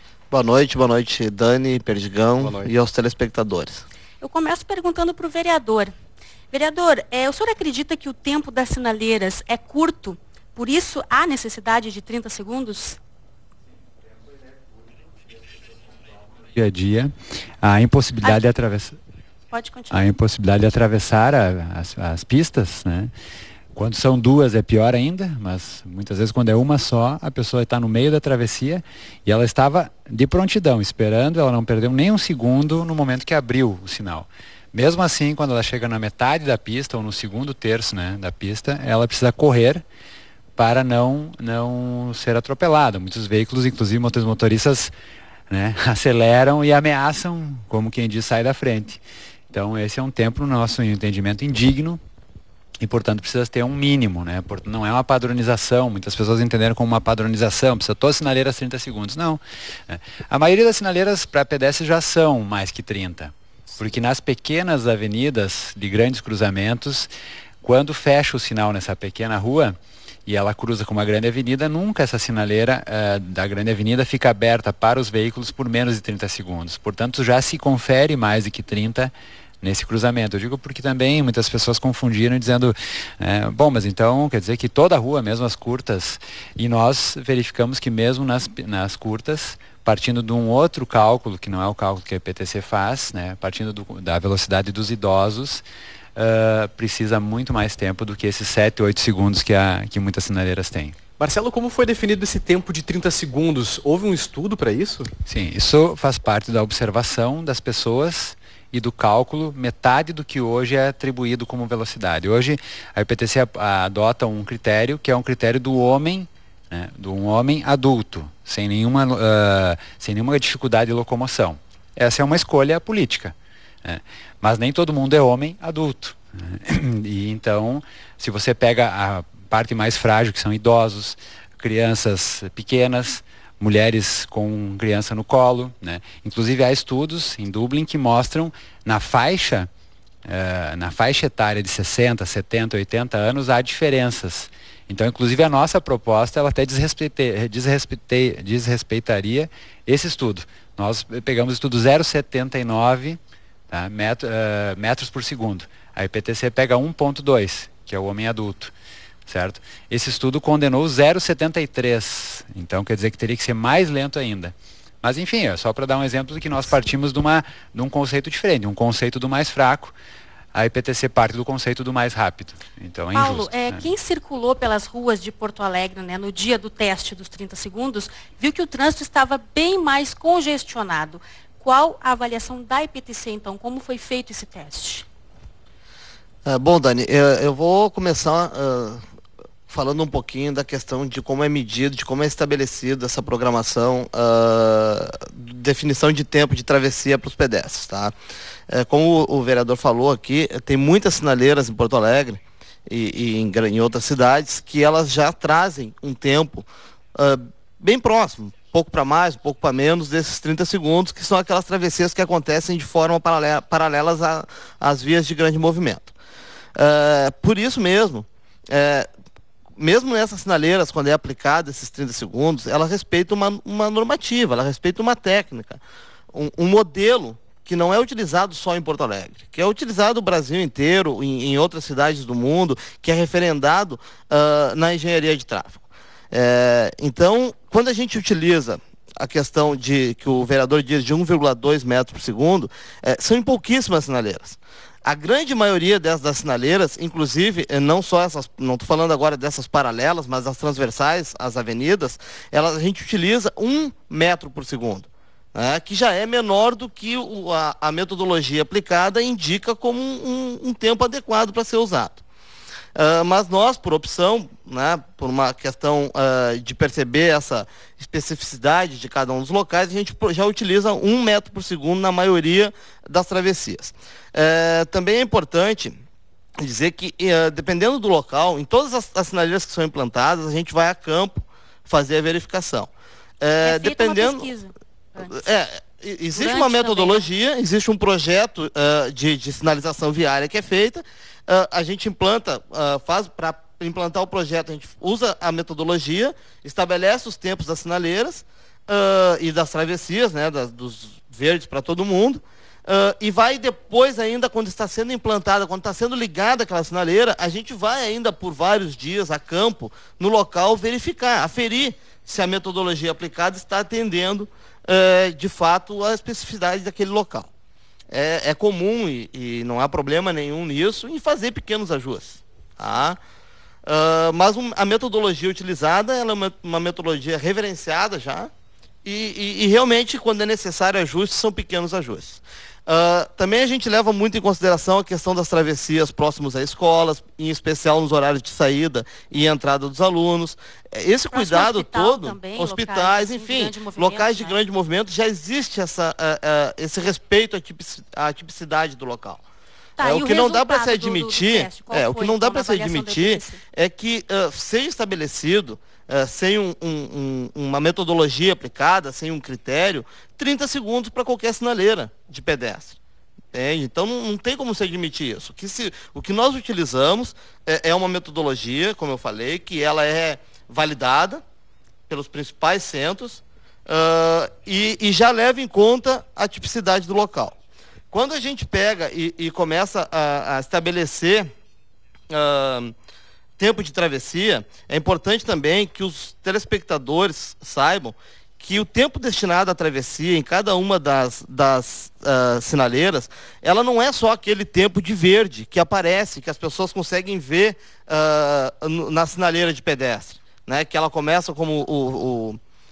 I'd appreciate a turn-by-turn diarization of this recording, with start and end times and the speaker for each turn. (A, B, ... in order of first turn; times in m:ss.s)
0:00.3-0:03.8 A
0:02.4-0:02.7 B
0:04.2-0:05.9 C
0:06.5-0:13.0 C
0:16.5-0:19.0 D
0:19.5-0:20.1 C
0:19.9-0:23.1 D
0:23.7-0:39.8 D
0:40.6-0:44.9 D
0:45.5-0:49.0 D
0:49.5-0:52.0 D
0:52.8-1:07.1 D
1:07.6-1:41.0 D
1:41.2-1:45.1 B
1:45.3-2:19.7 D
2:20.2-2:38.7 D
2:39.3-2:50.0 D
2:50.5-2:53.8 D
2:53.1-3:05.1 C
3:06.4-3:09.0 A
3:09.7-3:18.1 A
3:18.7-3:36.1 A
3:36.8-3:39.1 A
3:39.8-3:45.8 A
3:46.3-4:22.2 A
4:23.0-4:36.0 A
4:36.6-4:42.9 A
4:43.4-4:44.5 A
4:43.6-4:45.5 C
4:45.2-5:17.5 A
4:46.3-4:47.3 C
5:18.1-5:23.2 A
5:23.8-5:28.5 A
5:29.0-5:49.4 A
5:41.3-5:44.6 C
5:50.0-5:53.6 C
5:50.0-6:03.0 A
6:03.5-6:11.4 A
6:12.1-6:17.6 A
6:18.1-6:21.5 A
6:22.3-6:22.9 A
6:23.6-6:42.6 A